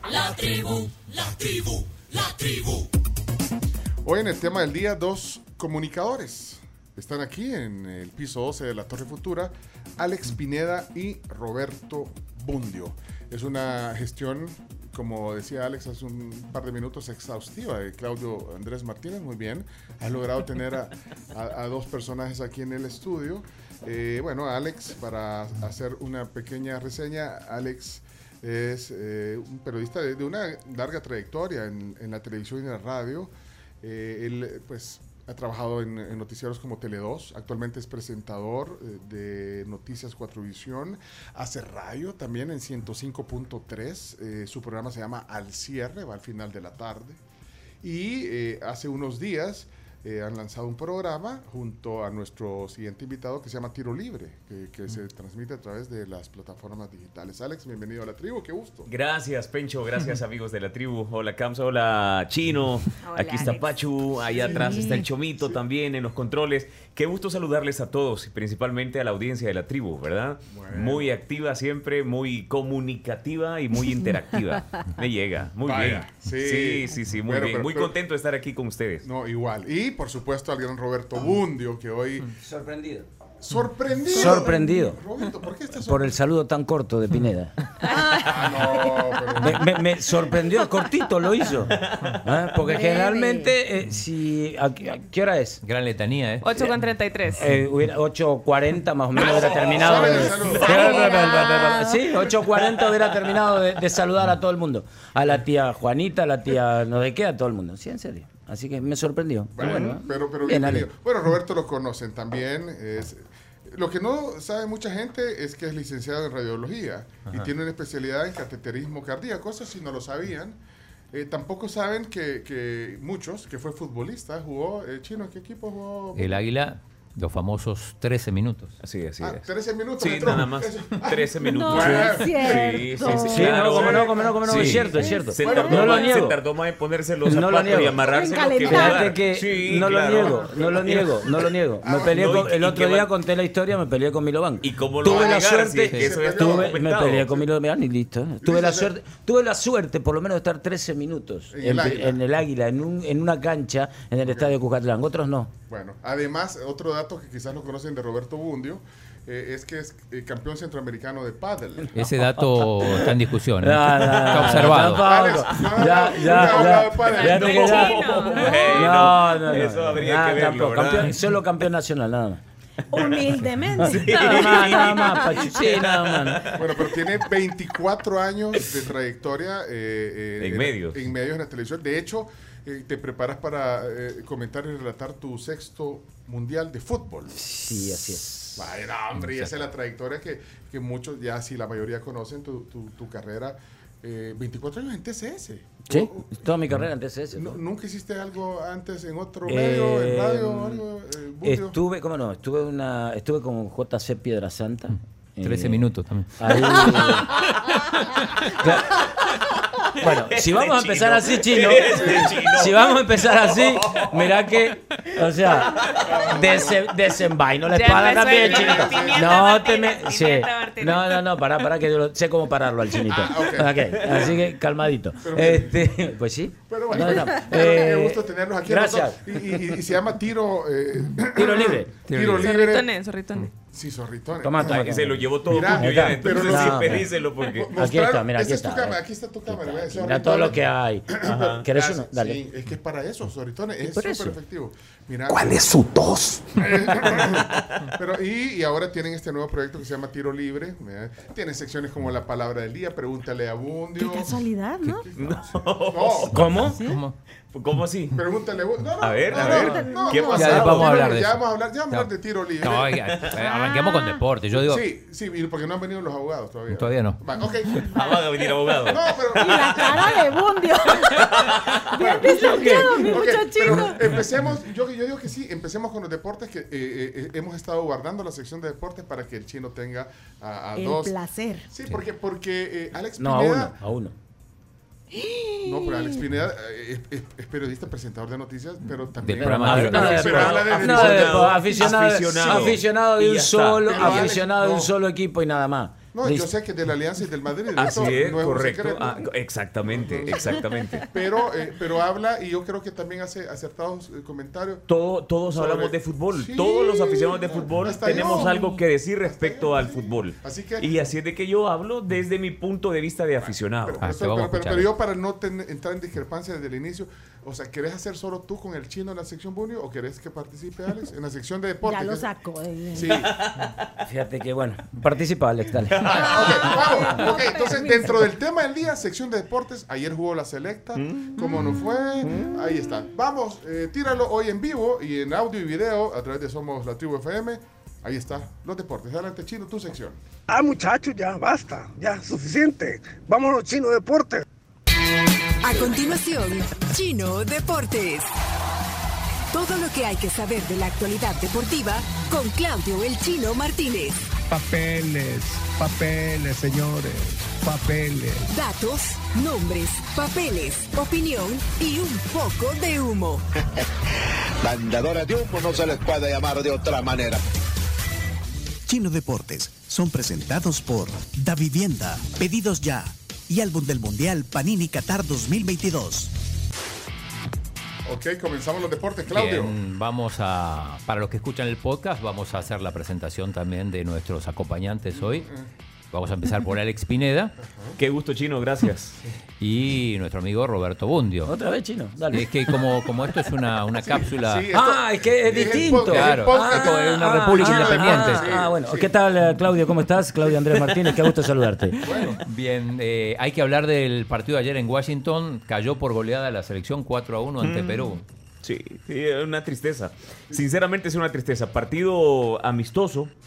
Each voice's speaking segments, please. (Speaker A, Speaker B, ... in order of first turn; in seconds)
Speaker A: 4.0-33.3, 33.8-47.2, 47.8-58.9, 64.3-64.9, 70.5-71.1, 75.6-77.9, 79.0-82.3, 83.4-86.2, 88.1-89.7, 99.7-101.1, 109.5-120.6, 121.1-126.4, 129.2-132.9, 133.5-134.8, 135.4-136.0, 141.8-142.2, 145.1-145.4, 146.0-146.7, 148.4-148.9, 151.5-152.2, 154.2-154.5, 155.7-161.9, 164.4-167.6, 176.5-187.4, 188.6-196.3, 197.3-201.8, 211.8-212.4, 215.8-217.0, 218.1-219.5, 223.1-224.4, 225.2-226.0, 226.7-232.9, 233.7-234.9, 235.4-245.5, 246.6-256.3, 258.1-262.9, 264.5-268.2, 268.8-270.1, 271.9-281.1, 281.7-283.8, 285.6-292.7, 293.9-294.9, 296.1-299.3, 299.9-304.9, 305.5-311.1, 313.4-322.3, 322.9-323.3, 326.0-340.2, 378.0-379.7, 385.1-385.7, 387.6-388.0, 394.0-399.1, 400.5-400.9, 402.0-402.4
Speaker B: 58.9-79.1, 91.8-92.2, 128.8-129.4, 130.0-141.4, 141.9-143.1, 144.6-147.4, 167.2-171.2, 173.8-176.6, 180.4-181.0, 210.0-214.3, 215.6-216.1, 234.6-237.7, 241.2-241.6, 255.1-256.4, 257.5-258.2, 259.0-260.9, 267.9-270.0, 271.1-271.8, 290.1-294.3, 297.7-301.1, 304.9-314.0, 323.2-323.8, 325.9-326.6, 330.9-331.5, 388.0-389.2, 407.6-413.3
Speaker C: 63.0-63.6, 96.4-97.5, 167.3-169.1, 217.7-221.2, 232.4-233.5
Speaker D: 64.5-65.0, 84.1-84.7, 87.8-88.6, 92.6-93.5, 100.6-102.0, 131.4-133.6, 134.9-135.9, 138.0-139.1, 167.6-168.6, 172.9-175.6, 254.0-255.1, 256.6-257.0, 259.3-261.1, 263.4-264.2, 269.4-274.1, 280.8-281.7, 285.1-286.2, 308.2-308.7, 321.8-323.2, 326.1-328.3
Speaker E: 82.4-83.1, 84.1-85.0, 85.8-87.5, 89.3-95.6, 97.3-110.9, 133.1-136.4, 137.2-138.0, 138.7-155.5, 162.0-172.4, 173.8-176.5, 187.3-188.6, 195.9-197.6, 199.4-200.8, 201.4-205.8, 206.4-207.4, 208.5-209.0, 210.0-229.6, 231.3-231.9, 234.4-237.0, 237.7-242.4, 243.8-244.4, 256.3-256.8, 283.2-284.1, 289.4-296.5, 324.0-326.1, 391.4-392.5, 394.7-402.0
Speaker F: 95.6-96.5, 126.2-128.7, 161.9-165.0, 205.4-206.8, 232.1-232.6, 256.3-257.1, 260.3-262.1, 262.6-264.8, 266.7-267.2, 289.2-290.6, 314.0-314.9, 379.3-385.5, 386.1-387.5, 389.6-391.5, 392.3-394.7, 396.1-398.4, 402.1-408.2
Speaker G: 245.4-246.4, 368.9-376.3
Speaker H: 340.5-344.4, 354.5-358.5
Speaker I: 345.6-348.3, 349.5-354.2, 358.5-363.4
Speaker J: 364.6-367.4